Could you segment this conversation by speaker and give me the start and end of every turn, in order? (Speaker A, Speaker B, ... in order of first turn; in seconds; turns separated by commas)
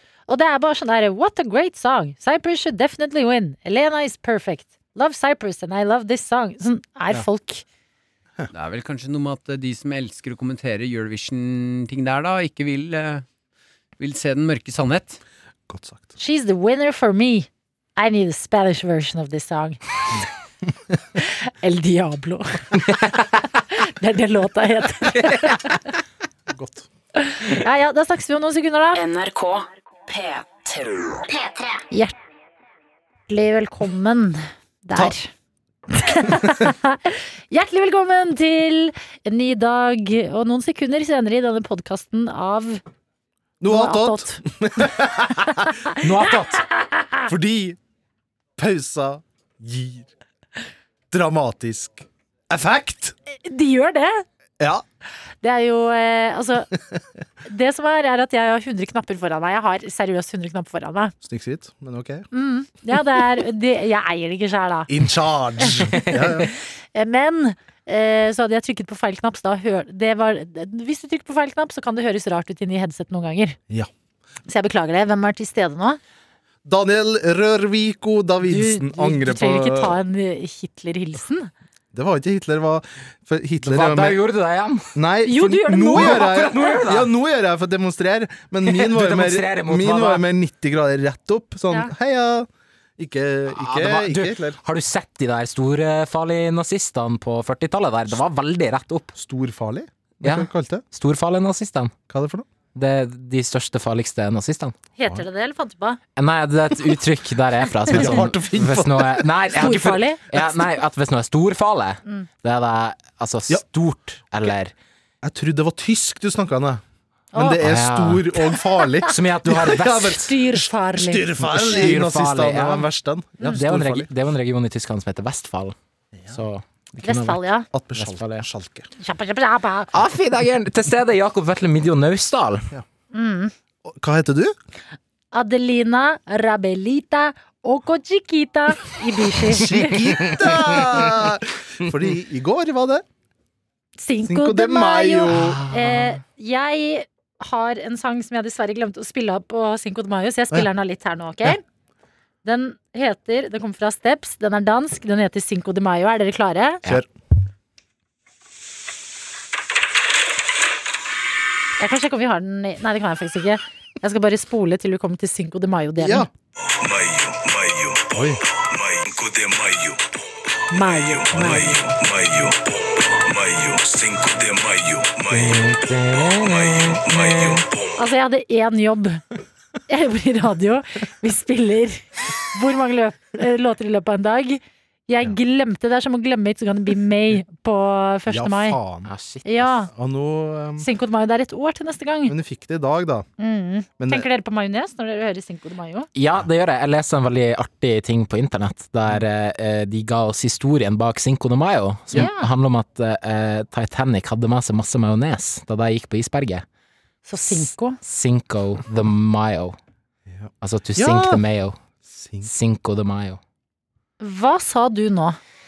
Speaker A: 0.3-7.6, Speaker B: 8.5-13.2, Speaker B: 14.0-15.2, Speaker C: 15.7-16.1, Speaker A: 16.2-19.8, Speaker A: 21.2-25.9, Speaker D: 25.1-25.6, Speaker C: 26.5-26.9, Speaker A: 27.1-29.0, Speaker E: 28.9-31.8, Speaker A: 33.3-35.3, Speaker A: 35.9-42.8, Speaker C: 43.6-45.8, Speaker A: 43.7-44.4, Speaker A: 45.6-47.3, Speaker D: 46.0-46.6, Speaker C: 47.3-47.8, Speaker C: 48.6-50.1, Speaker C: 51.1-53.1, Speaker A: 53.4-54.2, Speaker A: 55.4-56.7, Speaker A: 57.4-61.1, Speaker C: 61.2-62.2, Speaker A: 62.3-64.9, Speaker C: 64.9-66.5, Speaker A: 66.1-73.6, Speaker A: 74.5-76.0, Speaker C: 76.6-80.0, Speaker A: 78.4-81.5, Speaker C: 81.9-84.2, Speaker D: 83.6-84.9, Speaker C: 84.9-94.6, Speaker A: 85.2-86.3, Speaker D: 85.9-87.1, Speaker D: 88.6-90.2, Speaker D: 93.5-99.1, Speaker C: 99.2-100.8, Speaker D: 100.2-101.9, Speaker C: 102.1-102.5, Speaker D: 102.7-104.7, Speaker A: 105.0-106.0, Speaker D: 106.2-114.7, Speaker C: 107.9-109.3, Speaker A: 109.5-110.2, Speaker C: 115.2-116.8, Speaker A: 117.3-117.6, Speaker C: 117.3-124.1, Speaker D: 117.6-120.2, Speaker A: 120.1-121.3, Speaker D: 121.4-122.9, Speaker D: 123.5-125.7, Speaker D: 126.3-127.4, Speaker A: 127.0-127.7, Speaker C: 127.7-128.9, Speaker D: 127.9-128.5, Speaker A: 129.0-129.9, Speaker D: 129.9-132.7, Speaker A: 133.1-133.5, Speaker C: 133.8-134.5, Speaker A: 135.3-140.1, Speaker C: 139.5-143.0, Speaker D: 140.3-141.1, Speaker A: 144.0-151.6, Speaker C: 144.3-145.6, Speaker D: 145.3-146.2, Speaker A: 152.4-156.8, Speaker A: 161.8-166.3, Speaker C: 166.0-166.3, Speaker F: 166.6-170.1, Speaker A: 170.7-171.7, Speaker F: 170.7-175.7, Speaker D: 175.3-177.6, Speaker F: 176.4-178.0, Speaker A: 178.0-179.2, Speaker A: 179.9-188.8, Speaker C: 188.3-189.1, Speaker D: 189.0-189.8, Speaker A: 189.4-189.9, Speaker C: 189.9-190.8, Speaker A: 190.8-192.3, Speaker C: 192.3-193.3, Speaker A: 193.4-196.1, Speaker C: 194.0-194.3, Speaker D: 196.1-206.6, Speaker A: 202.1-202.5, Speaker A: 207.2-208.0, Speaker D: 207.4-209.8, Speaker C: 210.3-211.4, Speaker D: 210.6-211.8, Speaker C: 212.0-212.5, Speaker D: 212.4-213.4, Speaker A: 214.2-215.4